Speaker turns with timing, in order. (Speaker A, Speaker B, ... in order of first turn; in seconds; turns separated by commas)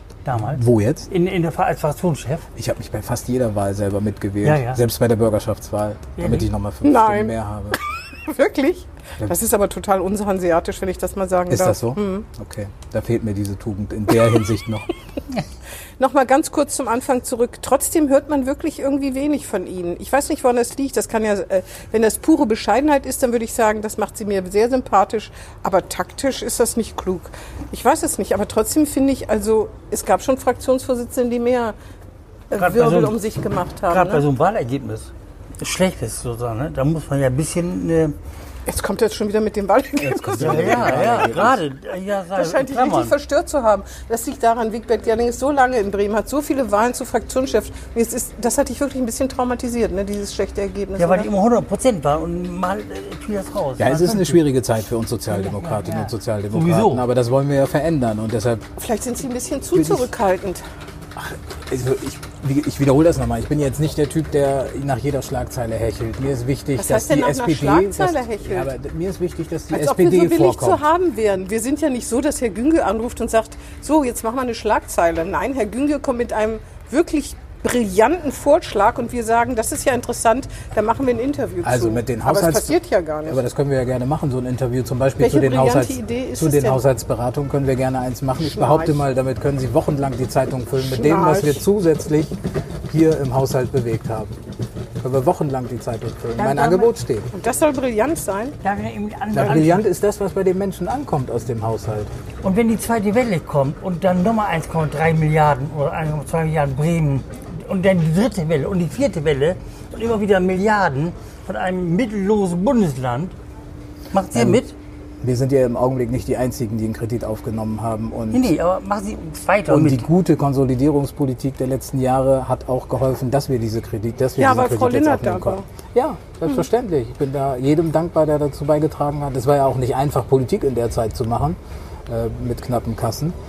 Speaker A: 0.2-2.5, Speaker B: 0.4-1.1, Speaker B: 2.6-7.8, Speaker A: 4.4-4.8, Speaker A: 6.2-6.5, Speaker C: 6.8-7.4, Speaker C: 8.3-12.3, Speaker B: 11.5-14.9, Speaker C: 16.0-31.8, Speaker C: 32.5-34.2, Speaker A: 32.5-33.2, Speaker A: 33.9-38.1, Speaker C: 38.7-41.3, Speaker B: 40.0-41.6, Speaker A: 40.4-43.2, Speaker C: 42.4-51.3, Speaker A: 51.0-54.4, Speaker B: 53.8-58.7, Speaker A: 55.3-57.0, Speaker C: 58.8-60.6, Speaker B: 59.8-60.1, Speaker B: 61.2-70.8, Speaker C: 66.8-68.7, Speaker C: 69.7-83.4, Speaker B: 81.6-92.4, Speaker C: 85.2-86.8, Speaker C: 88.4-89.0, Speaker C: 90.8-91.6, Speaker B: 92.9-94.3, Speaker B: 95.0-97.3, Speaker A: 96.4-96.9, Speaker C: 97.3-98.6, Speaker A: 98.6-99.8, Speaker B: 99.3-102.1, Speaker A: 102.4-113.3, Speaker A: 114.1-114.7, Speaker B: 114.3-114.6, Speaker B: 115.2-118.5, Speaker A: 118.3-120.1, Speaker B: 119.7-133.4, Speaker C: 124.4-125.7